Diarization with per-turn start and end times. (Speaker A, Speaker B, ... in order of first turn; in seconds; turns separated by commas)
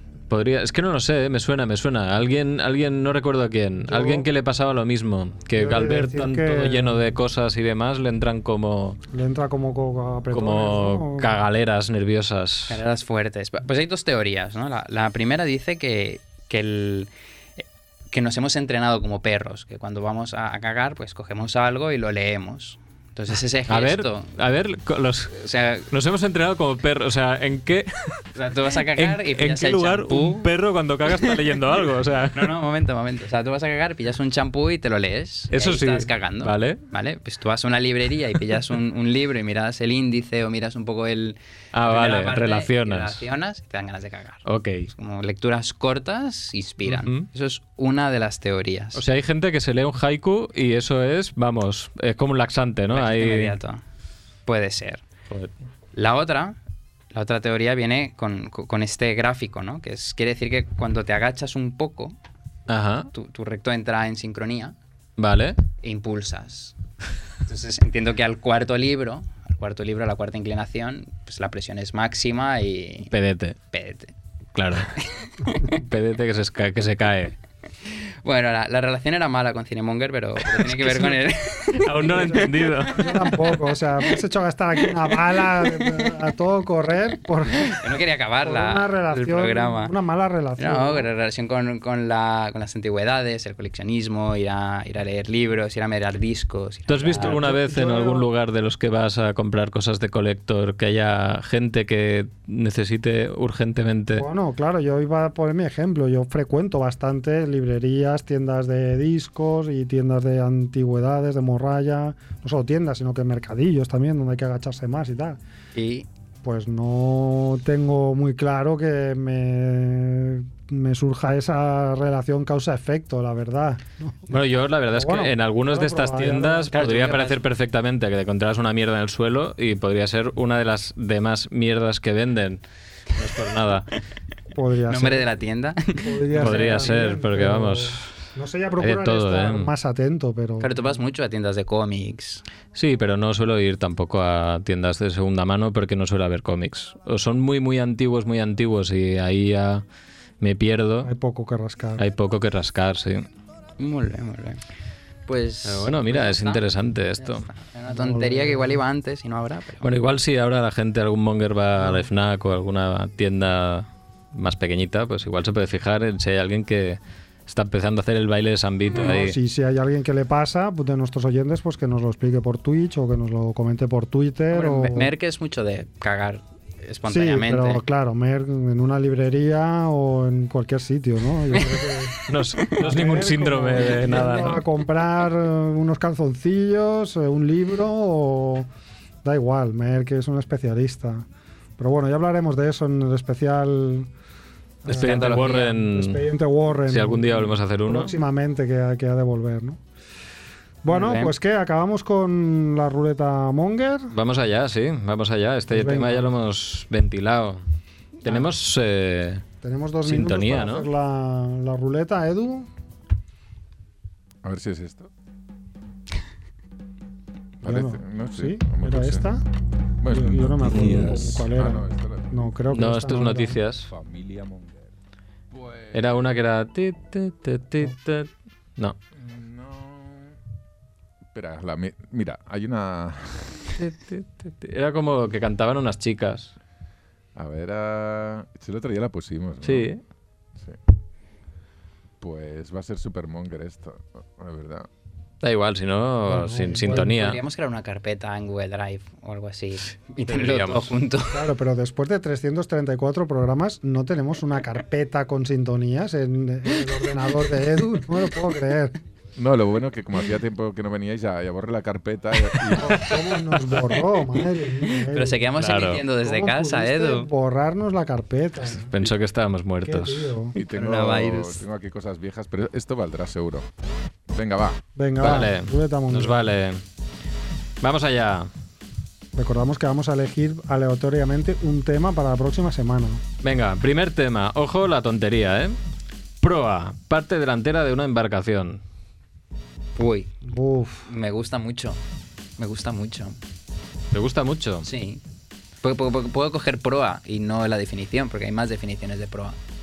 Speaker A: 0.3-9.0, Speaker B: 3.9-4.3, Speaker B: 5.5-7.0, Speaker B: 9.1-11.3, Speaker A: 10.3-12.8, Speaker C: 12.7-24.3, Speaker A: 23.7-28.2, Speaker C: 25.5-25.9, Speaker C: 28.4-30.5, Speaker A: 28.9-32.5, Speaker C: 32.3-49.0, Speaker A: 35.5-36.8, Speaker A: 41.7-43.2, Speaker A: 44.5-44.9, Speaker A: 46.9-47.3, Speaker A: 49.0-53.6, Speaker C: 52.9-53.8, Speaker C: 54.5-55.0, Speaker C: 56.0-56.6, Speaker C: 57.1-62.1, Speaker A: 62.7-63.1, Speaker C: 63.1-64.8, Speaker A: 65.2-65.6, Speaker C: 65.8-66.8, Speaker C: 67.5-73.1, Speaker A: 73.1-73.6, Speaker C: 73.7-74.1, Speaker A: 74.5-74.9, Speaker A: 75.6-77.4, Speaker C: 77.9-82.3, Speaker A: 81.8-83.5, Speaker B: 82.0-87.8, Speaker C: 87.7-89.9, Speaker B: 88.4-91.1, Speaker C: 90.6-97.4, Speaker A: 96.9-104.3, Speaker B: 97.1-98.3, Speaker B: 104.2-115.4, Speaker C: 115.8-116.1, Speaker B: 116.4-124.4, Speaker A: 124.3-132.6, Speaker B: 124.9-126.8, Speaker C: 126.7-127.4, Speaker A: 133.1-133.9, Speaker B: 134.5-135.3, Speaker C: 134.9-136.9, Speaker B: 136.0-140.9, Speaker A: 136.3-138.1, Speaker A: 138.8-139.7, Speaker C: 140.6-142.4, Speaker A: 142.8-149.8, Speaker A: 150.4-151.1, Speaker B: 151.0-152.0, Speaker A: 152.0-153.3, Speaker C: 153.8-154.6, Speaker C: 155.3-156.7, Speaker A: 155.7-157.5, Speaker C: 157.2-159.9, Speaker B: 157.9-158.8, Speaker A: 159.8-169.4, Speaker B: 161.8-162.1, Speaker B: 168.9-175.1, Speaker C: 174.5-177.8, Speaker B: 177.1-182.2, Speaker A: 182.3-184.6, Speaker B: 182.8-188.7, Speaker B: 189.2-191.3, Speaker B: 191.8-194.1, Speaker B: 194.8-199.8, Speaker A: 194.9-196.2, Speaker A: 196.9-198.1, Speaker B: 200.8-204.1, Speaker C: 200.9-201.3, Speaker A: 204.1-207.6, Speaker B: 205.7-206.3, Speaker A: 208.2-209.4, Speaker B: 209.6-212.7, Speaker A: 210.1-210.9, Speaker D: 214.4-215.1, Speaker B: 217.6-219.4, Speaker D: 217.7-219.3, Speaker D: 220.0-222.4, Speaker B: 220.1-223.6, Speaker A: 222.7-223.9, Speaker D: 223.9-224.9, Speaker D: 225.5-226.0, Speaker A: 225.9-229.0, Speaker D: 229.2-230.3, Speaker D: 231.3-233.8, Speaker A: 233.8-236.5, Speaker D: 237.4-239.9, Speaker A: 239.6-240.0, Speaker D: 242.2-244.9, Speaker A: 245.4-247.4, Speaker B: 246.3-247.3, Speaker C: 246.9-251.4, Speaker A: 250.3-250.9, Speaker B: 251.3-259.0, Speaker D: 259.4-263.2, Speaker B: 262.8-265.5, Speaker C: 265.0-267.3, Speaker A: 265.6-266.0, Speaker B: 266.2-268.9, Speaker A: 268.9-270.3, Speaker B: 269.8-270.6, Speaker D: 270.6-273.7, Speaker C: 270.6-271.6, Speaker D: 274.3-274.8, Speaker B: 275.0-276.4, Speaker A: 275.2-276.8, Speaker A: 277.8-278.5, Speaker B: 279.4-283.2, Speaker A: 283.4-285.8, Speaker A: 286.4-288.8, Speaker C: 290.0-290.3, Speaker B: 290.4-291.1, Speaker C: 291.1-292.0, Speaker C: 292.6-293.4, Speaker A: 294.1-294.9, Speaker C: 294.8-295.2, Speaker C: 295.8-299.6